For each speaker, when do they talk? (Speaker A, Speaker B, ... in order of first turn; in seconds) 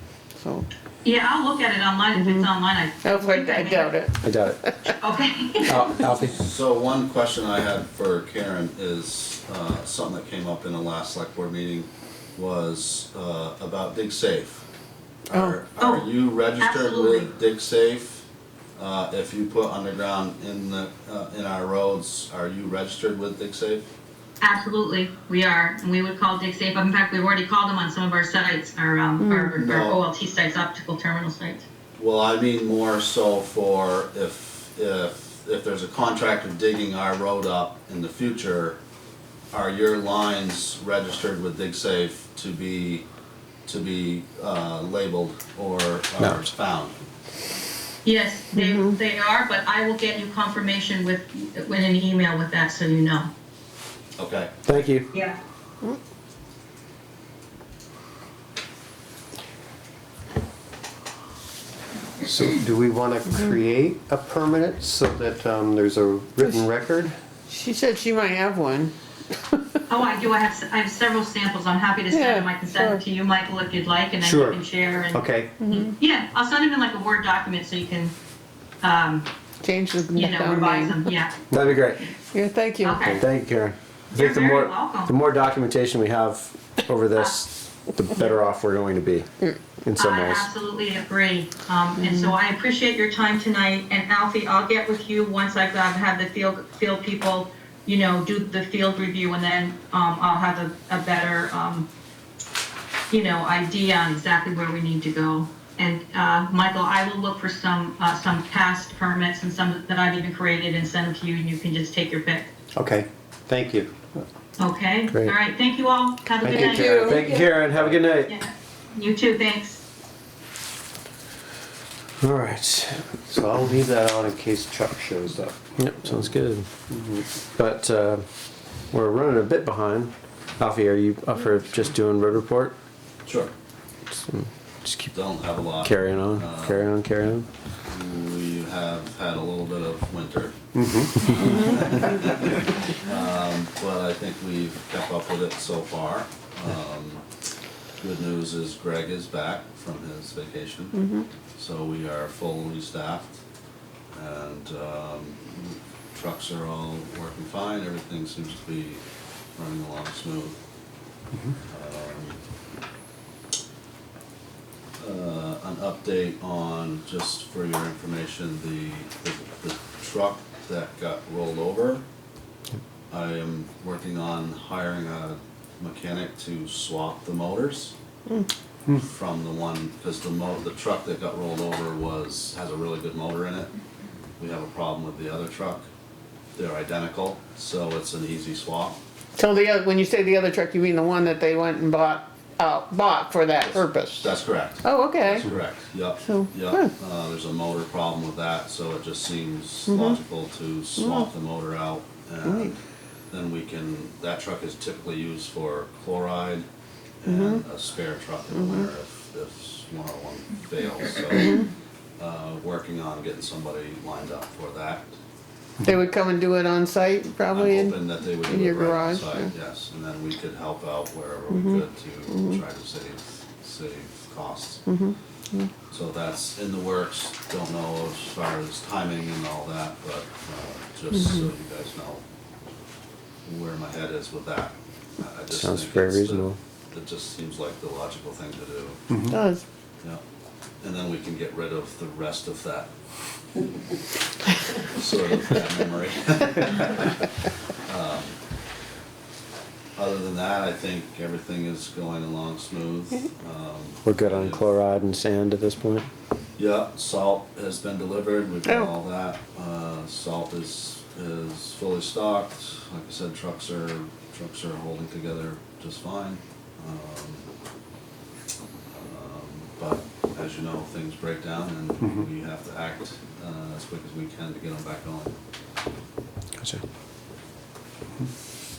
Speaker A: 0.4-0.7, 2.1-2.5, 3.0-4.2, 29.2-29.6, 48.5-48.9, 67.5-68.9, 72.1-73.0, 75.6-75.9, 79.6-81.1, 82.3-83.2, 92.0-92.3, 116.4-117.4, 141.4-141.9, 150.9-151.2, 189.4-195.5, 196.2-196.9, 199.9-200.2, 201.0-201.3, 202.4-202.7, 207.2-207.6, 208.5-208.9, 211.4-211.7, 215.8-219.5, 221.5-222.6, 224.9-225.7, 231.1-231.5, 239.3-239.6
Speaker B: 1.0-4.0, 5.0-6.0, 15.8-16.1, 16.6-17.3, 24.4-31.6, 48.0-53.3, 55.1-55.4, 69.9-78.1, 78.8-79.3, 80.1-81.4, 82.8-83.2, 84.1-85.1, 87.1-87.4, 90.0-101.9, 103.1-112.5, 114.6-117.4, 118.3-119.8
Speaker C: 4.2-4.6, 5.6-6.4, 54.6-55.1, 81.5-82.0, 83.2-89.3, 89.8-90.5, 116.4-118.3, 122.2-123.0, 125.8-126.7, 127.5-128.2, 128.9-132.7, 134.1-135.1, 135.7-137.5, 235.5-236.6, 254.0-256.1
Speaker D: 6.2-14.6, 15.2-18.2, 18.8-23.9, 29.6-30.0, 31.9-38.8, 39.5-43.0, 43.6-47.0, 54.2-54.7, 133.2-133.5, 135.1-136.9, 137.9-140.6, 141.3-147.2, 148.0-151.0, 151.5-153.4, 154.1-159.0, 159.6-160.6, 161.7-162.4, 165.0-172.0, 173.1-177.9, 178.9-183.7, 184.4-185.8, 186.6-189.0, 193.7-202.7, 203.3-206.7, 207.2-211.6, 212.2-215.1, 217.5-224.9, 225.9-232.2, 233.4-239.1, 240.8-242.9, 244.9-247.3, 247.8-248.4, 250.0-254.7, 256.6-267.4, 268.9-275.4
Speaker E: 62.2-67.1, 74.2-74.6, 75.1-75.5, 112.7-114.0, 123.3-125.6, 126.9-127.2, 140.8-141.6